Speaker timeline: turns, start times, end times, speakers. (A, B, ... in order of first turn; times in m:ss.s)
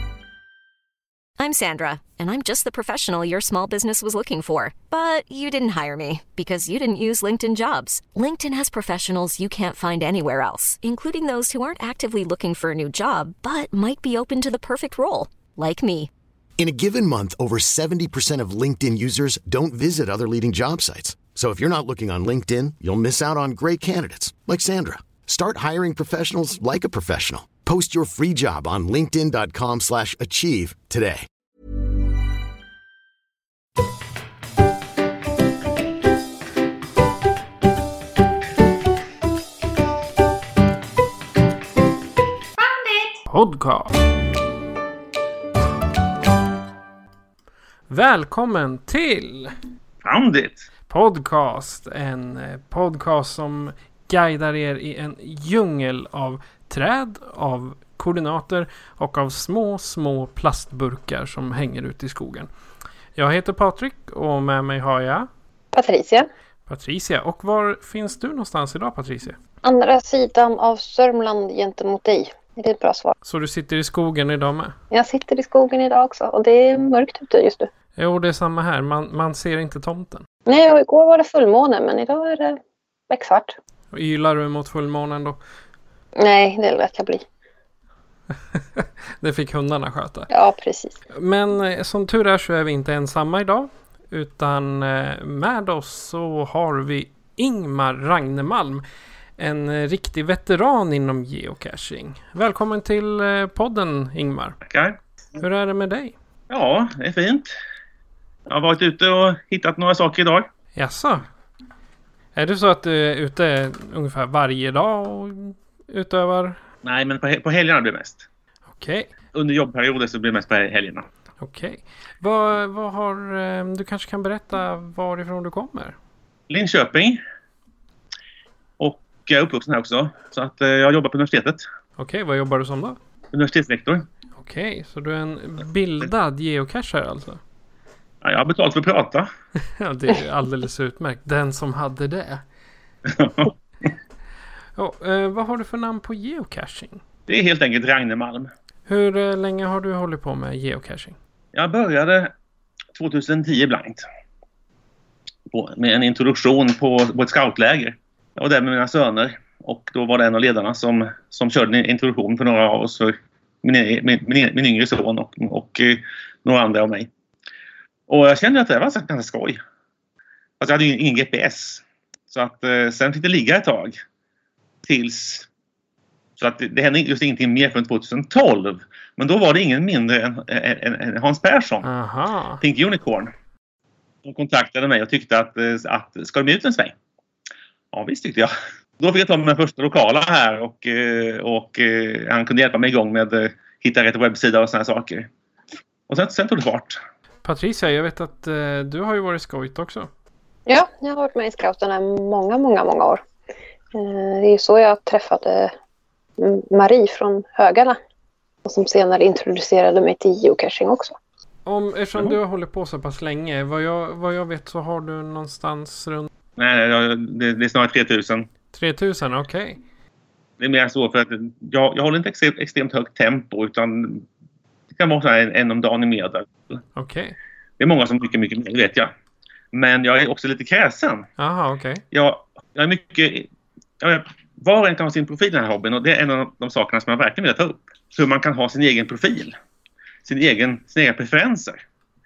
0:01.4-0:16.1 A
0:16.6-0:31.3 B
0:43.3-0:43.9 C
0:47.9-0:49.5 C
0:50.0-0:50.7 D
0:50.9-1:02.5 C
1:03.2-1:05.3 C
1:05.7-1:06.3 E
1:06.7-1:09.4 C
1:09.6-1:13.1 E
1:13.2-1:14.7 C
1:14.9-1:17.7 E
1:18.0-1:20.2 C
1:20.4-1:22.6 E
1:23.1-1:23.6 E
1:23.9-1:25.4 C
1:26.2-1:27.2 E
1:28.8-1:30.3 C
1:30.3-1:31.0 E
1:31.1-1:38.8 C
1:39.4-1:44.6 C
1:44.6-1:45.0 D
1:45.4-1:46.1 C
1:46.5-1:47.5 D
1:48.5-1:50.5 D
1:50.8-1:51.3 C
1:52.3-1:56.6 C
1:56.8-1:58.3 D
1:58.8-1:59.1 C
1:59.3-2:01.1 D
2:01.4-2:06.0 C
2:06.5-2:07.2 D
2:08.8-2:11.6 D
2:12.0-2:13.0 C
2:13.3-2:14.1 D
2:14.4-2:17.4 C
2:18.2-2:19.3 D
2:19.8-2:22.4 C
2:23.1-2:23.5 D
2:24.8-2:27.0 C
2:27.3-2:28.5 D
2:28.9-2:31.2 C
2:31.5-2:32.3 D
2:32.9-2:34.0 D
2:35.5-2:47.1 D
2:48.1-2:49.6 D
2:50.6-2:54.0 D
2:54.8-2:55.5 D
2:56.4-3:01.9 D
3:01.8-3:02.6 C
3:02.6-3:03.3 D
3:04.2-3:06.9 D
3:07.9-3:15.3 D
3:16.1-3:17.0 D
3:17.4-3:20.1 C
3:20.7-3:23.2 E
3:23.9-3:25.7 E
3:26.4-3:28.0 E
3:28.6-3:31.1 E
3:31.7-3:36.3 C
3:36.6-3:38.5 D
3:38.7-3:39.8 C
3:40.6-3:44.2 D
3:44.9-3:46.8 D
3:47.0-3:47.4 C
3:47.8-3:49.1 D
3:49.7-3:51.3 D
3:51.4-3:52.0 C
3:52.1-3:53.5 D
3:54.0-3:59.5 D
4:00.2-4:01.8 D